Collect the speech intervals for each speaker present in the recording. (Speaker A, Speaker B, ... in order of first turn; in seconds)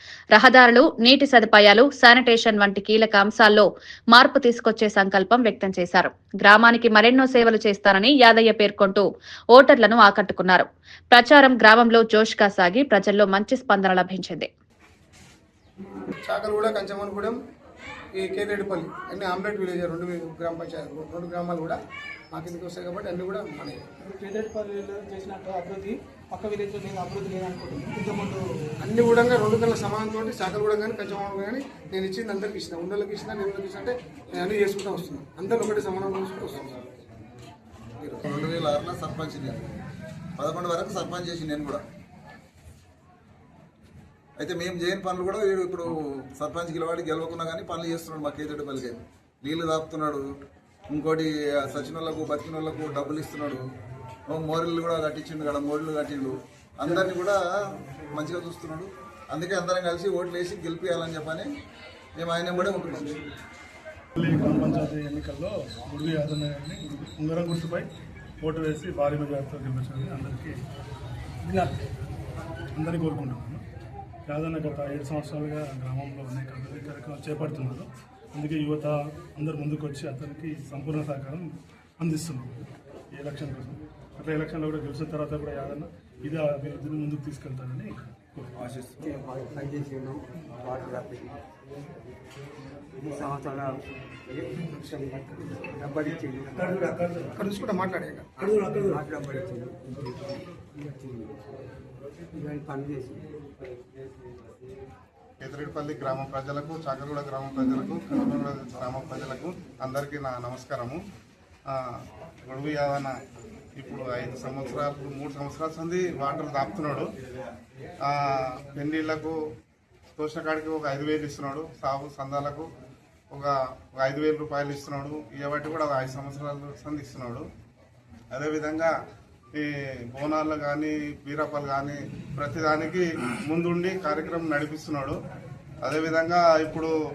Speaker A: 0.3-14.5
Speaker B: 16.2-17.4, 18.1-21.8, 22.3-23.8, 28.8-36.8, 97.3-98.5
Speaker C: 24.1-28.4
Speaker D: 38.0-39.6, 40.4-41.8, 44.4-50.2, 50.9-53.6, 54.3-57.4, 58.1-61.5, 62.1-63.2
Speaker E: 64.2-67.9, 68.4-70.6, 71.4-71.8, 72.8-73.6, 74.3-82.5, 83.1-88.5, 98.6-99.0
Speaker F: 88.8-91.4, 93.0-93.8, 94.4-97.1, 98.6-101.3, 102.3-103.2
Speaker G: 105.4-111.0, 112.4-113.1, 113.8-117.1, 118.0-119.4, 120.1-122.7, 123.3-127.5, 128.3-128.9, 129.5-135.2, 135.8-136.9